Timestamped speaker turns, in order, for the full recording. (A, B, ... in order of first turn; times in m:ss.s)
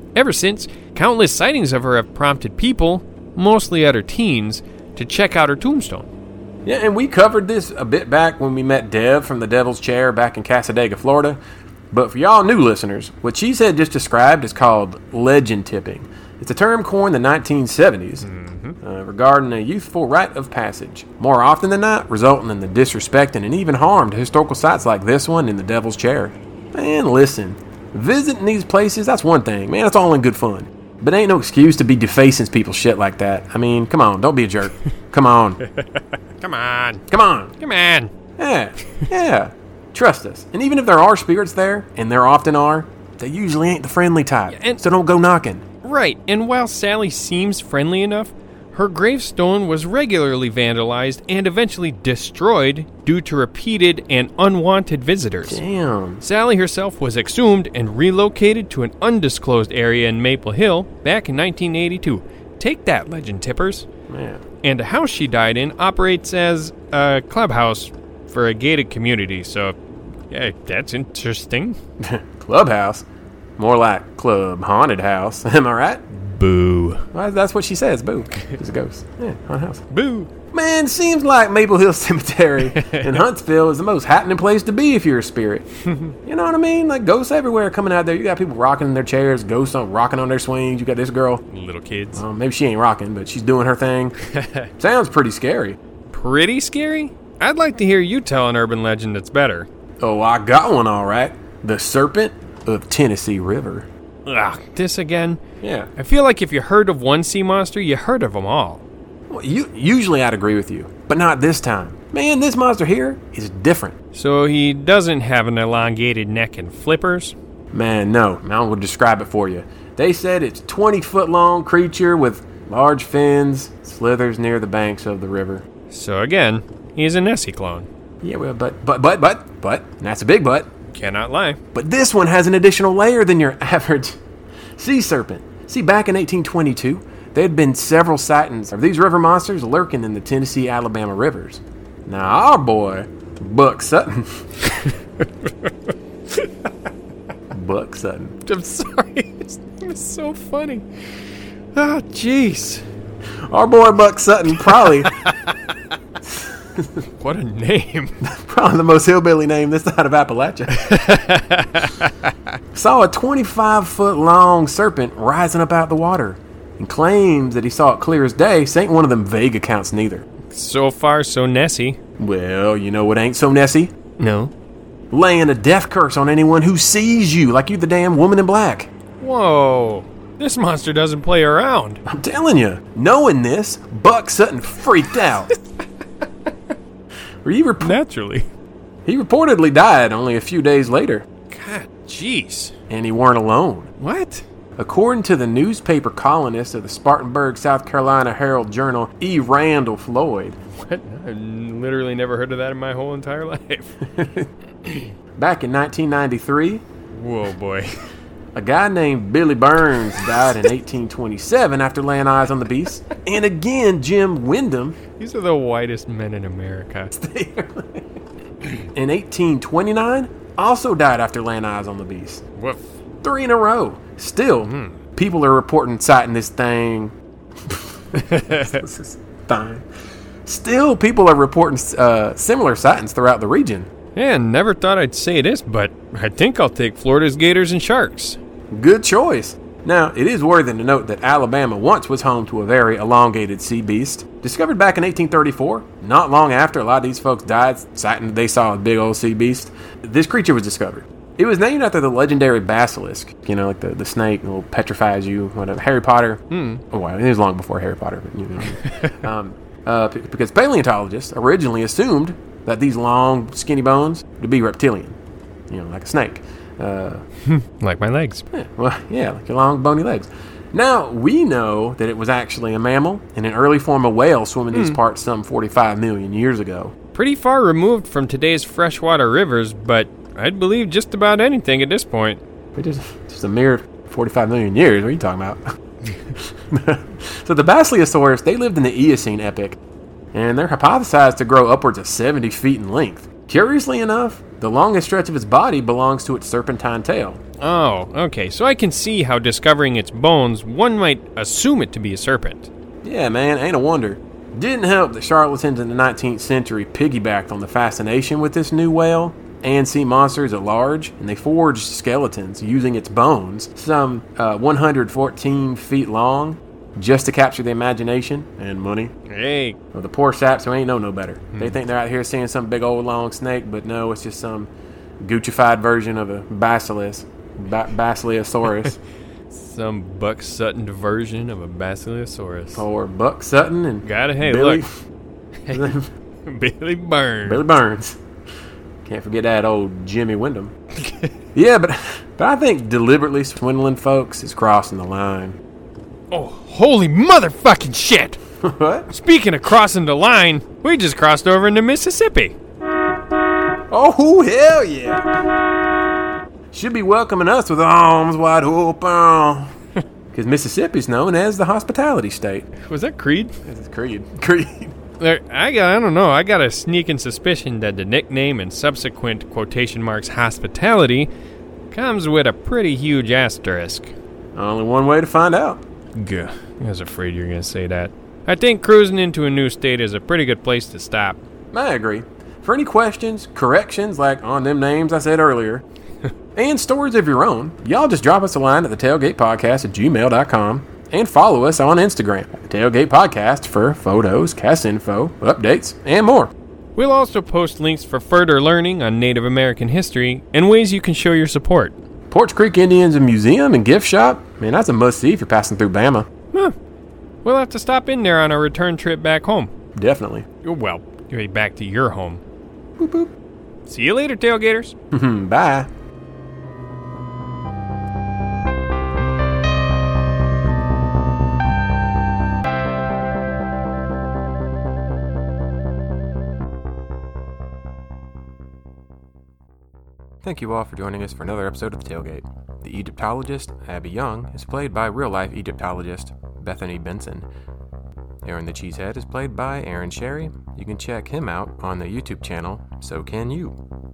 0:00.2-0:06.1 A
0:06.6-0:18.3 B
0:18.2-0:18.8 A
0:18.8-0:35.6 B
0:35.8-0:37.1 A
0:37.1-0:37.6 B
0:37.6-0:38.1 A
0:38.4-0:45.7 B
0:44.5-0:44.8 A
0:45.8-0:55.6 A
0:55.5-0:56.2 B
0:56.2-1:03.9 A
1:04.1-1:04.4 B
1:04.6-1:09.8 A
1:10.3-1:11.8 A
1:12.0-1:13.0 B
1:13.6-1:16.0 B
1:16.1-1:17.0 A
1:17.1-1:19.8 B
1:19.9-1:20.3 A
1:20.5-1:25.7 B
1:22.7-1:23.2 A
1:25.9-1:26.1 A
1:26.3-1:31.4 B
1:31.5-1:32.2 A
1:32.1-1:34.2 B
1:34.3-1:34.7 A
1:34.8-1:35.8 B
1:36.1-1:39.7 A
1:40.0-1:43.9 B
1:44.3-1:45.4 A
1:45.6-1:45.9 B
1:46.0-1:48.8 A
1:49.3-1:54.0 B
1:54.1-1:57.4 A
1:57.7-2:05.6 B
2:05.9-2:07.9 A
2:08.2-2:10.7 B
2:10.9-2:11.6 A
2:11.7-2:14.2 B
2:14.8-2:24.5 B
2:27.5-2:28.4 B
2:28.5-2:30.9 A
2:31.8-2:32.8 A
2:33.5-2:35.1 B
2:34.6-2:35.8 A
2:37.2-2:38.2 A
2:38.2-2:40.8 B
2:40.8-2:42.3 A
2:42.7-2:50.2 B
2:50.5-2:52.0 A
2:52.2-2:53.9 B
2:54.2-2:54.5 A
2:55.1-2:58.9 B
2:59.2-3:02.0 A
3:02.0-3:05.5 B
3:07.4-3:08.0 B
3:07.8-3:08.5 A
3:09.0-3:11.2 B
3:11.5-3:12.7 A
3:12.9-3:13.9 B
3:14.0-3:14.4 A
3:14.8-3:20.6 B
3:20.8-3:24.1 A
3:24.1-3:24.5 B
3:25.4-3:26.8 B
3:27.1-3:27.9 A
3:28.6-3:35.0 B
3:30.2-3:30.4 A
3:35.2-3:37.1 A
3:37.1-3:38.1 B
3:38.7-3:42.4 B
3:42.6-3:42.8 A
3:43.2-3:47.1 B
3:44.7-3:45.0 A
3:47.7-3:49.8 B
3:48.2-3:48.8 A
3:50.5-3:53.9 B
3:54.2-3:58.4 A
3:58.7-4:25.2 B
4:16.5-4:16.8 A
4:18.8-4:19.1 A
4:25.7-4:27.2 B
4:27.5-4:28.4 A
4:28.5-4:36.9 B
4:34.7-4:35.0 A
4:37.1-4:42.4 A
4:42.8-4:45.6 B
4:46.7-4:49.8 B
4:50.3-4:57.4 B
4:57.6-5:02.7 A
5:03.0-5:19.1 B
5:19.3-5:19.8 A
5:19.9-5:29.0 B
5:21.5-5:21.8 A
5:29.5-5:32.8 A
5:32.8-5:34.9 B
5:34.0-5:34.8 A
5:35.7-5:36.0 A
5:35.7-5:36.1 B
5:36.5-5:37.6 A
5:37.4-5:38.2 B
5:39.0-5:40.7 B
5:41.0-5:41.3 A
5:41.6-5:45.6 B
5:46.3-5:48.4 A
5:48.6-5:49.1 B
5:49.1-5:52.5 A
5:53.9-5:55.5 B
5:56.7-5:59.7 B
6:00.3-6:02.7 B
6:02.8-6:03.5 A
6:03.6-6:05.0 B
6:05.2-6:11.3 A
6:11.9-6:14.1 A
6:14.6-6:15.8 B
6:16.2-6:21.4 A
6:21.7-6:25.8 B
6:26.6-6:36.5 B
6:37.0-6:41.9 A
6:42.3-6:46.3 B
6:47.4-6:49.7 A
6:50.0-6:50.5 B
6:50.6-6:52.4 A
6:53.0-6:53.3 B
6:53.9-6:54.9 A
6:55.1-6:55.9 B
7:10.4-7:17.5 B
7:18.4-7:23.8 B